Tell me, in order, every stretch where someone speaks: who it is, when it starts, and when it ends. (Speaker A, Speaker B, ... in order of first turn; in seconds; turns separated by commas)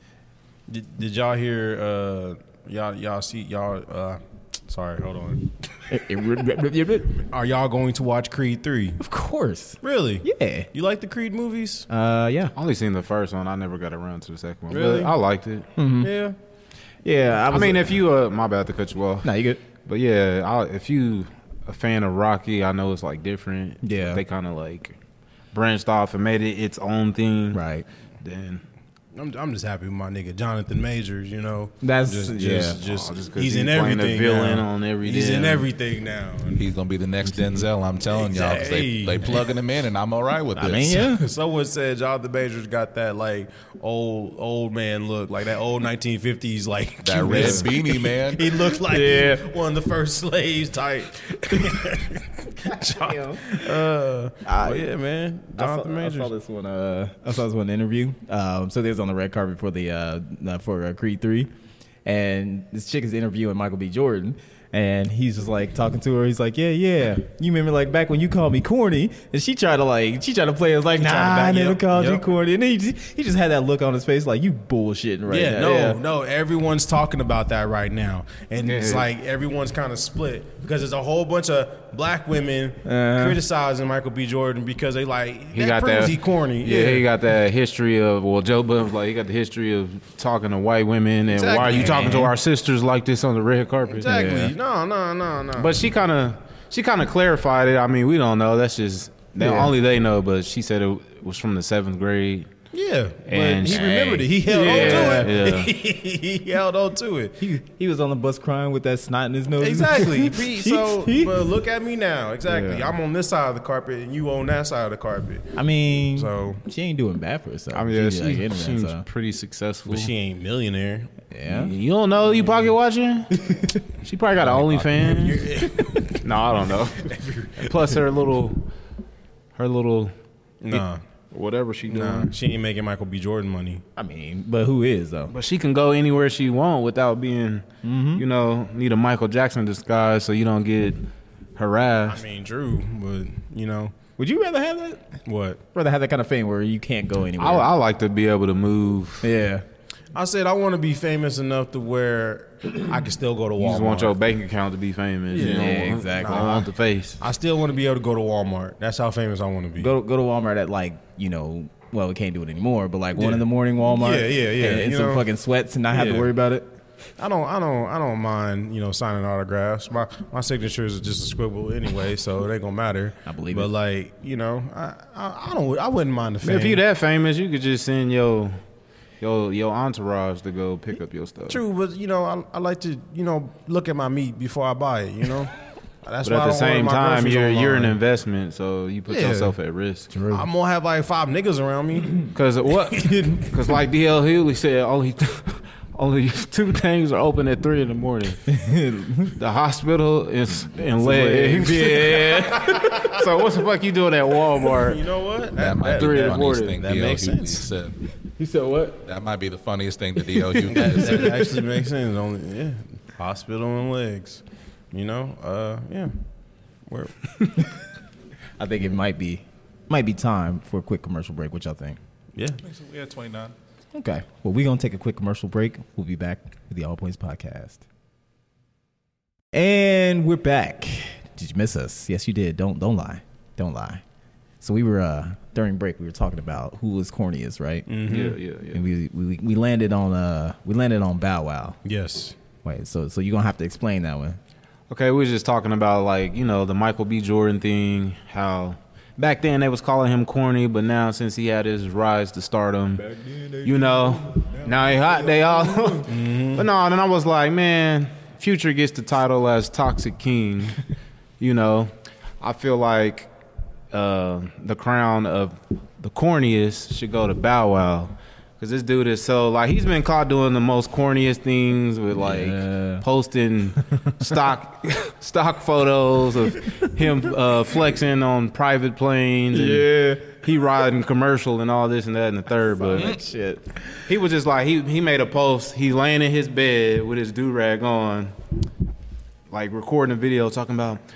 Speaker A: 0.7-5.5, Speaker B: 5.9-7.2, Speaker A: 7.2-9.0, Speaker B: 9.0-10.7, Speaker A: 9.8-11.9, Speaker B: 11.9-12.5, Speaker C: 12.6-15.7, Speaker A: 14.7-15.1, Speaker B: 15.8-16.1, Speaker A: 16.0-16.4, Speaker B: 17.0-18.0, Speaker C: 17.5-19.3, Speaker B: 19.2-19.6, Speaker C: 19.8-25.0, Speaker B: 23.8-24.2, Speaker C: 25.5-27.6, Speaker B: 27.5-27.9, Speaker C: 28.2-28.6, Speaker A: 29.1-36.6, Speaker B: 31.8-32.8, Speaker C: 32.8-35.7, Speaker D: 36.5-41.1, Speaker A: 38.0-39.5, Speaker B: 40.5-41.2, Speaker A: 41.1-56.3, Speaker D: 47.0-48.5, Speaker C: 47.3-47.6, Speaker B: 48.8-49.4, Speaker B: 52.6-53.6, Speaker B: 54.4-54.9, Speaker B: 55.6-61.5, Speaker B: 62.0-76.0, Speaker A: 71.0-72.2, Speaker A: 75.3-87.0, Speaker C: 78.6-79.1, Speaker B: 82.8-83.4, Speaker C: 85.5-94.2, Speaker A: 91.3-92.2, Speaker B: 91.6-92.3, Speaker A: 93.9-95.8, Speaker B: 94.0-94.5, Speaker C: 95.5-102.5, Speaker B: 99.4-99.7, Speaker A: 102.7-107.4, Speaker C: 103.3-103.9, Speaker B: 103.6-105.3, Speaker C: 104.4-105.7, Speaker B: 107.4-111.3, Speaker A: 109.6-116.6, Speaker C: 112.5-113.0, Speaker B: 115.5-119.0, Speaker C: 117.7-120.1, Speaker A: 119.8-121.1, Speaker B: 121.3-121.7, Speaker C: 121.5-123.3, Speaker C: 124.0-125.5, Speaker A: 124.8-126.4, Speaker C: 126.2-128.7, Speaker A: 127.0-127.9, Speaker C: 129.6-130.1, Speaker A: 130.6-131.0, Speaker C: 130.7-132.3, Speaker A: 131.9-133.8, Speaker B: 133.9-135.3, Speaker C: 135.3-141.0, Speaker B: 137.8-138.2, Speaker C: 141.6-142.2, Speaker A: 142.1-143.9, Speaker B: 144.2-145.1, Speaker A: 145.2-145.6, Speaker B: 145.7-147.7, Speaker C: 147.4-149.3, Speaker B: 149.2-149.6, Speaker A: 150.1-154.1, Speaker C: 153.6-157.2, Speaker A: 155.3-156.5, Speaker B: 155.3-156.7, Speaker A: 157.2-159.9, Speaker B: 159.8-166.7, Speaker A: 163.1-165.3, Speaker A: 165.9-166.3, Speaker A: 167.2-176.8, Speaker B: 173.2-173.7, Speaker C: 176.4-178.6, Speaker C: 179.2-181.6, Speaker A: 181.5-185.5, Speaker A: 186.0-188.0, Speaker C: 186.2-190.1, Speaker A: 189.1-189.6, Speaker B: 190.1-190.5, Speaker A: 190.3-192.3, Speaker C: 192.3-198.5, Speaker A: 193.0-193.5, Speaker B: 198.5-199.3, Speaker C: 199.3-205.0, Speaker B: 201.0-202.6, Speaker A: 202.3-203.2, Speaker A: 204.7-207.7, Speaker D: 205.6-207.9, Speaker C: 205.8-206.8, Speaker C: 208.4-209.0, Speaker D: 209.0-211.4, Speaker A: 210.7-216.1, Speaker A: 216.9-217.3, Speaker B: 218.6-222.0, Speaker A: 222.3-222.6, Speaker D: 222.6-223.5, Speaker B: 223.9-227.8, Speaker B: 229.5-234.0, Speaker B: 234.6-237.9, Speaker A: 237.9-238.4, Speaker C: 238.1-238.8, Speaker B: 238.7-241.8, Speaker A: 241.8-242.4, Speaker B: 242.6-244.4, Speaker C: 244.9-253.1, Speaker B: 253.0-254.7, Speaker C: 253.6-260.8, Speaker A: 255.9-256.7, Speaker C: 261.4-263.3, Speaker C: 263.9-283.1, Speaker B: 272.2-273.0, Speaker B: 279.5-280.3, Speaker B: 282.8-283.8, Speaker C: 284.1-288.3, Speaker C: 289.5-291.0